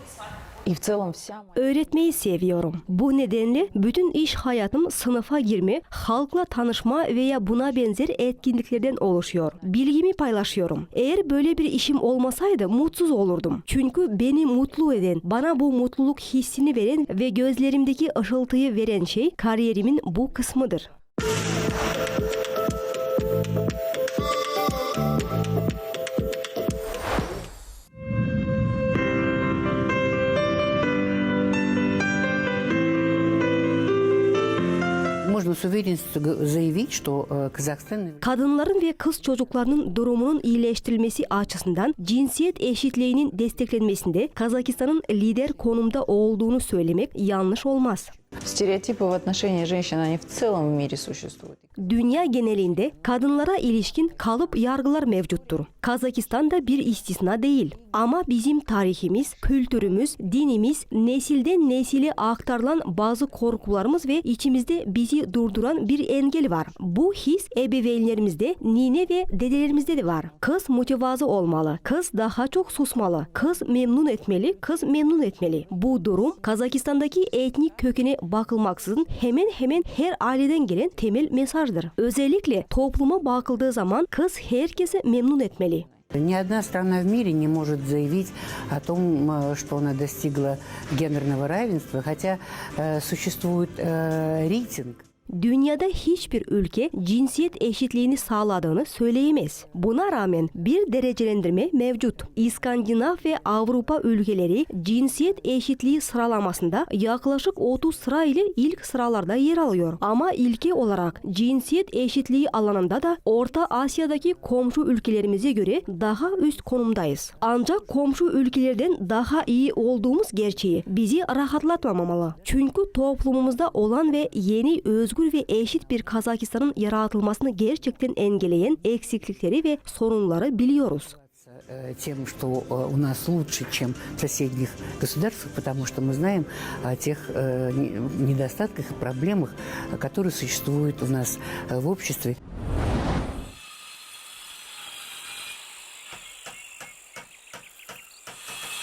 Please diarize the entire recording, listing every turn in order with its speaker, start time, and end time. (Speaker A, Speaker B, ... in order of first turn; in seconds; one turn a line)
Speaker A: 0.6-1.5
Speaker B: 1.5-20.9
Speaker C: 35.2-38.2
Speaker B: 38.2-48.1
Speaker A: 48.4-51.6
Speaker B: 51.8-85.9
Speaker C: 86.1-95.0
Speaker B: 95.3-131.1
Speaker C: 131.4-142.4